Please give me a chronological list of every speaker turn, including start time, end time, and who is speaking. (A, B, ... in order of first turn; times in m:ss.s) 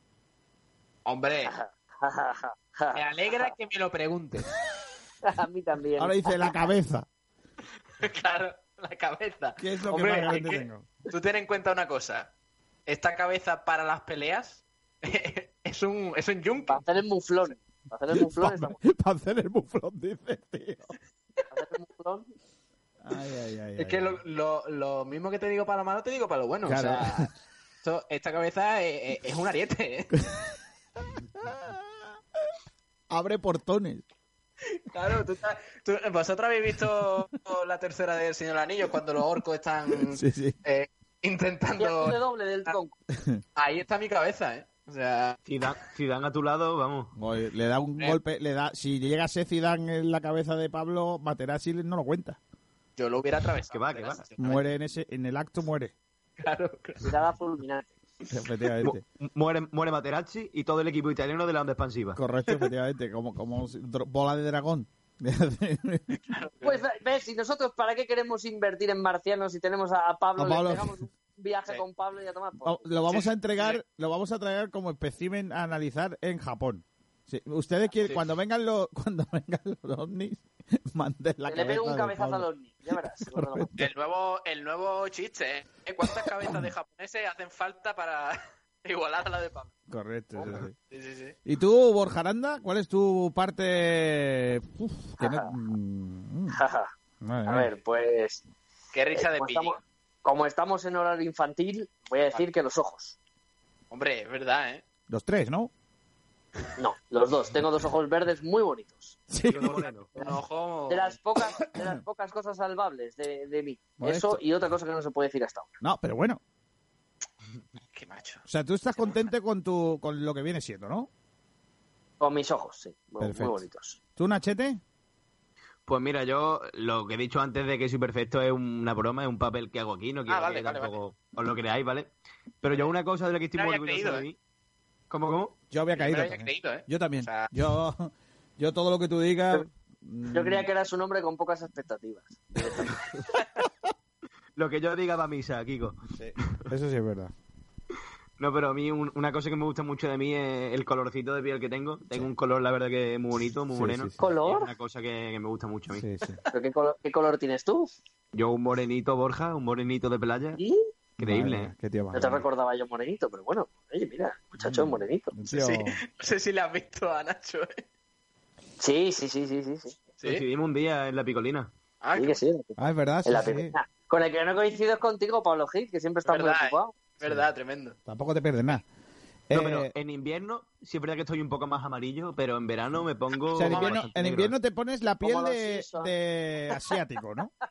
0:01.0-0:01.5 A
0:01.4-0:03.5 B
0:02.9-0:04.5 A
0:05.2-0:06.7 B
0:06.0-0:07.1 C
0:08.0-0:12.3 A
0:09.6-0:10.9 C
0:09.9-0:10.5 B
0:12.9-0:16.8 A
0:16.7-0:18.8 B
0:18.1-0:20.9 C
0:21.5-0:22.3 B
0:23.0-0:24.2 C
0:23.8-0:30.2 A
0:26.6-0:27.3 C
0:31.0-0:32.1 C
0:33.1-0:34.0 C
0:34.6-0:42.7 A
0:40.0-0:40.6 C
0:41.8-0:43.0 B
0:43.1-0:43.4 C
0:43.6-0:45.4 A
0:45.4-0:47.1 D
0:47.2-0:52.4 C
0:53.0-0:54.7 A
0:53.7-0:54.2 D
0:54.4-0:55.9 C
0:56.4-0:57.1 A
0:57.0-0:57.9 B
0:58.3-0:59.0 C
0:59.2-1:02.2 D
1:02.1-1:06.2 C
1:06.3-1:06.8 A
1:06.6-1:12.9 B
1:10.4-1:10.9 C
1:12.6-1:23.9 C
1:13.1-1:13.8 A
1:21.4-1:23.7 B
1:23.8-1:29.7 A
1:26.0-1:26.7 C
1:29.9-1:30.7 C
1:30.4-1:31.4 A
1:31.4-1:36.6 C
1:35.2-1:35.5 B
1:36.5-1:36.9 B
1:37.2-1:37.7 C
1:37.4-1:38.4 B
1:38.9-1:39.8 A
1:39.1-1:43.2 B
1:43.9-1:44.8 A
1:45.1-1:45.7 C
1:46.8-1:49.2 B
1:49.3-1:49.8 C
1:49.5-1:50.1 D
1:49.5-1:51.2 A
1:50.9-1:55.7 B
1:54.0-1:54.4 C
1:55.8-1:56.4 C
1:57.9-1:58.4 A
1:58.5-2:01.1 C
2:02.2-2:04.0 B
2:03.2-2:03.6 C
2:04.2-2:04.8 C
2:05.8-2:14.4 D
2:10.3-2:11.0 A
2:13.5-2:14.2 A
2:15.1-2:15.5 D
2:15.7-2:20.7 C
2:15.9-2:17.5 A
2:20.3-2:23.0 B
2:24.5-2:26.1 D
2:26.1-2:27.3 C
2:28.4-2:36.1 D
2:33.7-2:34.3 C
2:34.2-2:34.7 B
2:35.9-2:36.4 C
2:36.5-2:37.9 B
2:38.3-2:40.6 D
2:40.6-2:40.8 B
2:41.2-2:42.4 C
2:41.2-2:41.7 D
2:42.1-2:45.3 B
2:44.6-2:46.0 C
2:45.5-2:47.8 A
2:48.8-2:50.0 B
2:50.2-2:51.7 D
2:52.0-2:52.4 A
2:52.2-2:56.9 B
2:52.8-2:53.7 C
2:56.2-2:58.0 A
2:58.1-2:58.8 C
2:59.5-2:59.9 C
2:59.5-3:04.5 D
3:03.5-3:04.1 A
3:03.5-3:07.5 C
3:05.2-3:06.1 B